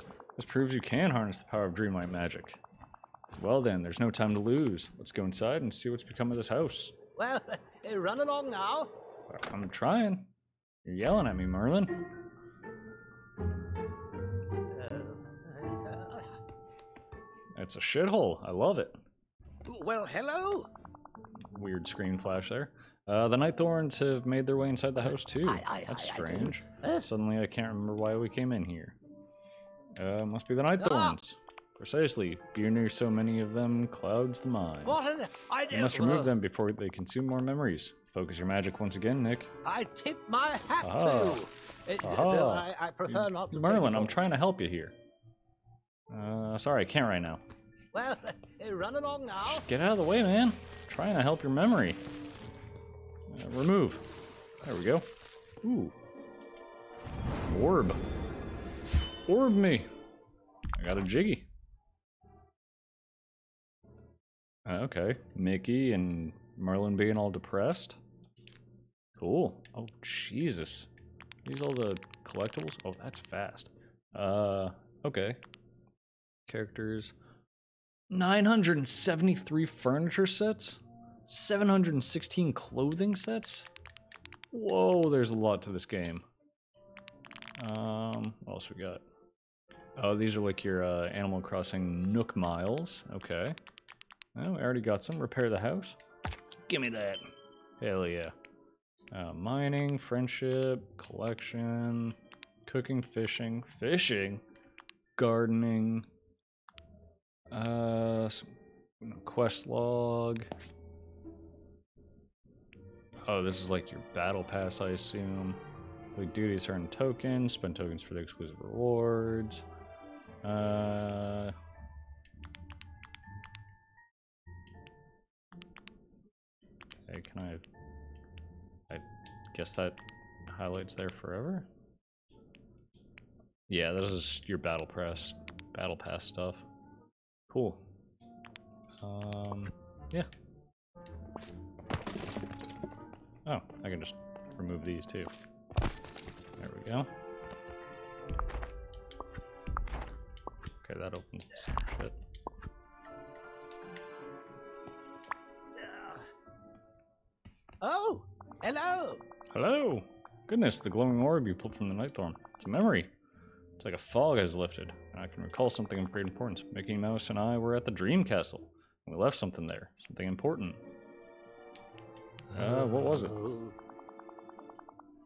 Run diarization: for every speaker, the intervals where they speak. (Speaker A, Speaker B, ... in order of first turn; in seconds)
Speaker A: 0.4-2.6, 3.4-6.9, 9.3-10.3, 10.8-12.1, 17.6-19.0, 21.5-29.0, 29.9-35.0, 35.7-39.5, 40.8-41.5, 42.0-44.9, 46.1-47.4, 49.4-52.0, 53.3-54.1, 54.6-55.1, 55.6-56.0, 57.4-58.0, 59.2-59.9, 60.7-61.5, 64.6-68.0, 69.2-70.9, 71.4-75.4, 76.5-77.1, 78.1-83.7, 84.5-86.2, 87.6-89.0, 90.0-93.6, 94.3-96.0, 96.7-97.3, 97.8-98.3, 99.1-104.4, 105.2-106.1, 107.5-110.5, 113.2-115.6, 116.1-119.6, 120.4-121.5, 127.1-127.6, 128.9-131.7, 133.7-136.6, 137.5-137.8, 139.0-140.3, 143.4-145.3, 146.6-147.1, 150.8-152.2, 159.5-163.1, 163.8-170.8, 172.5-173.5
Speaker B: 7.2-8.9, 14.7-16.3, 19.6-20.7, 25.0-27.0, 30.8-31.2, 34.8-36.4, 39.6-44.2, 47.9-49.6, 155.8-156.2, 157.8-159.2, 172.9-173.7